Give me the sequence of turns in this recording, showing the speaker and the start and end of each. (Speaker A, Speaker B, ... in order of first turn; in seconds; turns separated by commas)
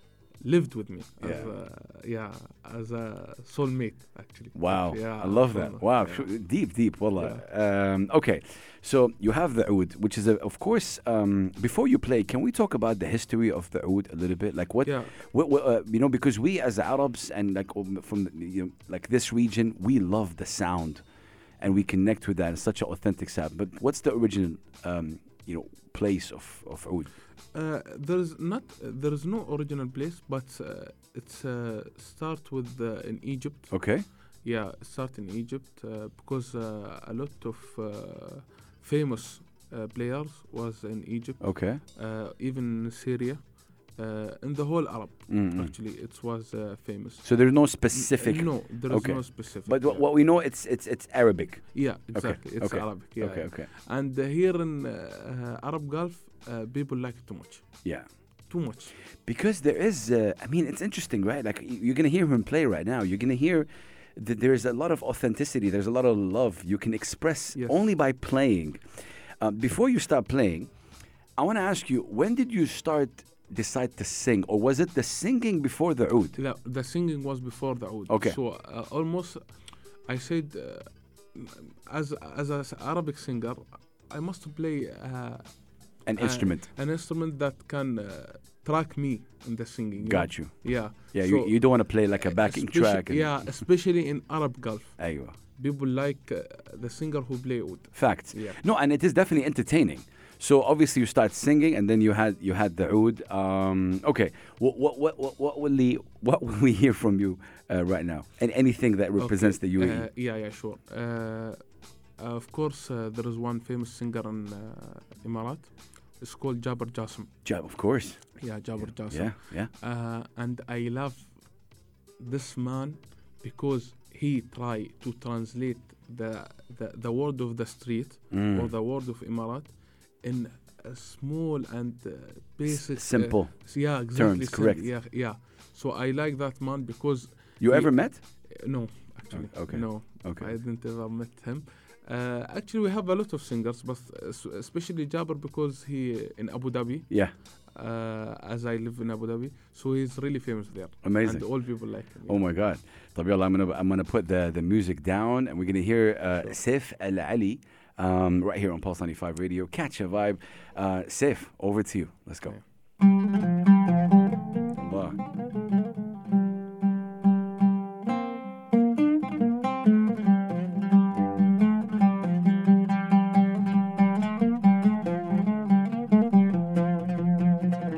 Speaker A: 0.4-6.3, Speaker B: 1.2-1.5, Speaker B: 4.5-21.0, Speaker A: 7.2-7.4, Speaker A: 14.8-15.1, Speaker B: 21.6-27.1, Speaker A: 27.5-47.3, Speaker B: 33.7-34.1, Speaker B: 41.4-41.8, Speaker B: 45.3-45.7, Speaker B: 47.2-53.7, Speaker A: 47.9-50.0, Speaker A: 51.7-57.7, Speaker A: 58.5-58.9, Speaker B: 59.2-68.8, Speaker A: 67.5-67.9, Speaker B: 69.4-70.7, Speaker B: 71.4-76.4, Speaker A: 76.4-79.4, Speaker B: 78.1-78.4, Speaker A: 80.0-98.6, Speaker B: 86.0-86.7, Speaker B: 90.0-93.5, Speaker B: 95.0-95.4, Speaker B: 97.9-110.1, Speaker A: 109.2-117.3, Speaker B: 117.4-119.7, Speaker A: 118.4-121.6, Speaker A: 122.2-147.1, Speaker B: 128.3-128.7, Speaker B: 132.7-134.9, Speaker B: 137.6-138.2, Speaker B: 139.3-140.5, Speaker A: 147.7-152.4, Speaker B: 151.0-151.5, Speaker B: 152.3-162.6, Speaker B: 164.8-165.2